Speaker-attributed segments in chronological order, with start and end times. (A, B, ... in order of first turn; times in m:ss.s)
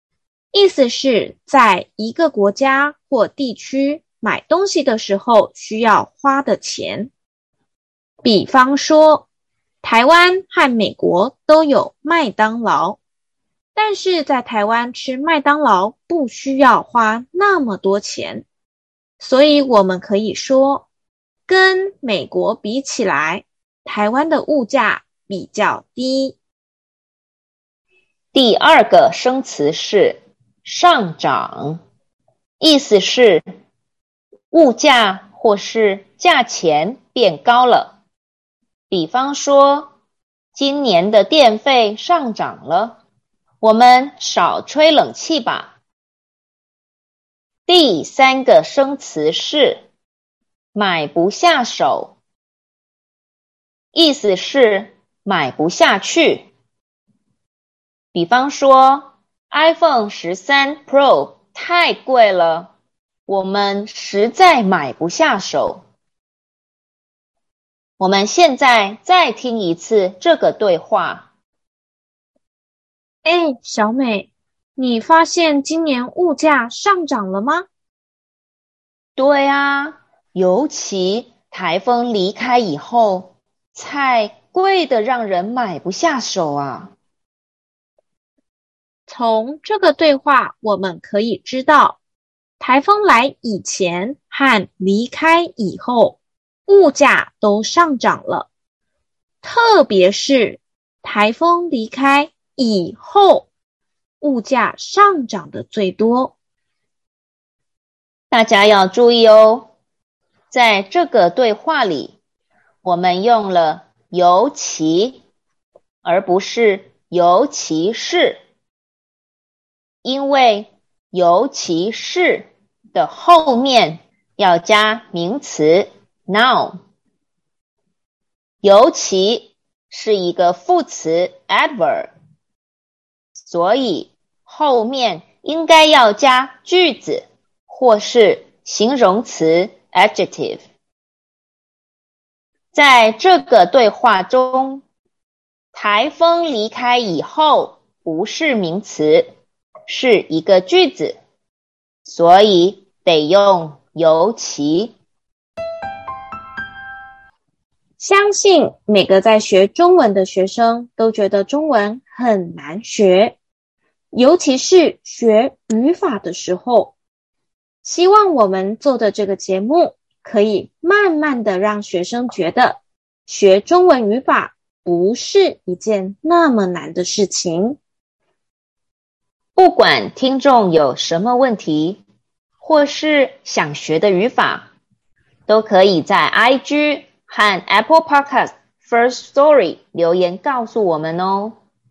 0:00.5-0:07.1 A
0:08.2-0:09.3 A
0:09.8-0:13.0 A
0:13.8-0:18.5 A
0:19.2-0:20.9 A
0:21.5-0:26.4 A
0:28.3-0:31.8 B
0:32.6-0:33.4 B
0:34.5-0:38.0 B
0:38.9-0:40.0 B
0:40.6-0:43.0 B
0:43.6-0:45.8 B
0:47.7-0:49.9 B
0:50.7-0:52.2 B
0:53.9-0:56.5 B
0:58.1-1:02.7 B
1:03.3-1:05.8 B
1:08.0-1:11.3 B
1:13.2-1:17.7 A
1:19.2-1:27.0 B
1:29.1-1:32.0 A
1:32.6-1:38.5 A
1:39.4-1:43.5 A
1:44.2-1:46.3 A
1:48.3-1:49.7 B
1:50.5-1:52.2 B
1:52.8-1:55.2 B
1:56.0-1:58.4 B
2:00.0-2:06.8 B
2:08.6-2:12.1 B
2:13.5-2:20.6 B
2:22.7-2:24.8 B
2:25.7-2:29.3 B
2:29.9-2:31.2 B
2:32.1-2:35.0 B
2:38.0-2:43.4 A
2:44.1-2:47.0 A
2:47.8-2:57.8 A
2:59.6-3:02.0 B
3:02.6-3:04.7 B
3:05.5-3:11.6 B